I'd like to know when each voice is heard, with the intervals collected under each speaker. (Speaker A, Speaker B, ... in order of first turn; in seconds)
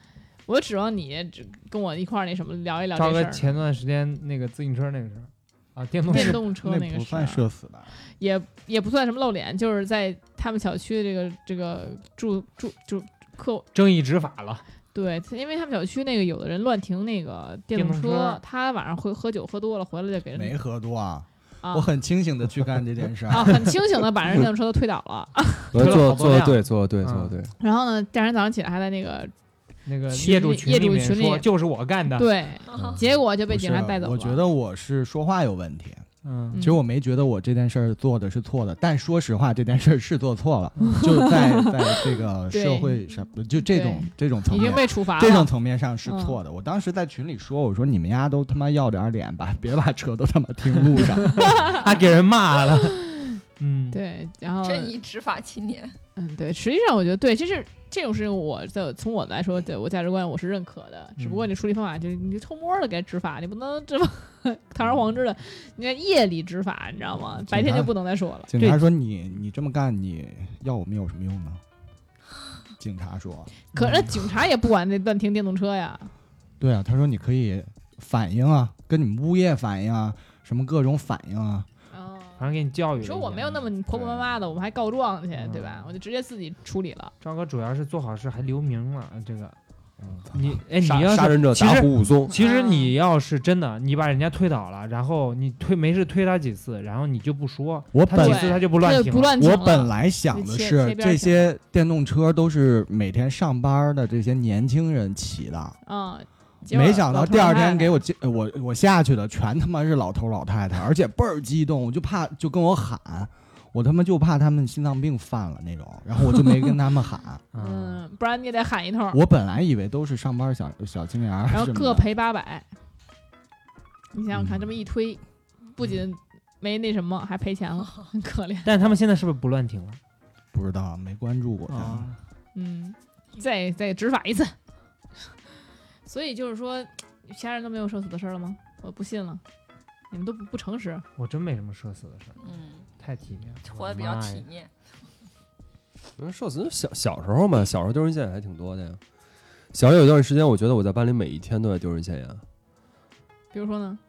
Speaker A: 0.5-3.5, 6.1-7.5, 8.0-13.7, 14.9-20.6, 21.6-21.9, 23.3-25.7, 27.6-29.3, 30.1-31.5, 32.1-34.4, 36.5-36.8, 40.8-43.0, 43.6-45.5, 46.0-46.4, 51.4-51.9, 53.9-55.0, 56.1-68.5, 73.7-76.1, 81.9-87.1, 92.3-93.0, 98.2-101.5, 105.8-108.0, 117.5-119.2, 121.5-122.7, 124.1-128.7, 132.5-134.5, 136.1-139.4, 140.1-141.0, 153.5-154.0
Speaker B: 3.0-6.4, 13.7-14.6, 17.7-18.4, 25.7-27.4, 29.9-32.3, 36.2-36.6, 51.4-54.0, 61.2-61.5, 68.6-68.8, 73.8-74.2, 82.4-83.7, 85.3-85.9, 87.2-89.6, 90.3-99.4, 117.5-118.0, 128.6-130.0, 131.7-132.2, 141.2-142.4, 143.0-144.5
Speaker C: 6.1-7.9, 20.3-23.8, 33.5-51.7, 67.3-71.6, 72.8-73.5, 76.6-81.7, 83.9-84.3, 97.9-98.7, 99.4-105.8, 106.7-117.4, 119.1-122.1, 130.5-132.1
Speaker D: 25.7-27.5, 32.8-33.0, 90.1-92.3, 146.2-149.0, 149.7-152.4
Speaker E: 32.7-33.0, 54.6-56.0, 142.4-142.9, 143.6-144.7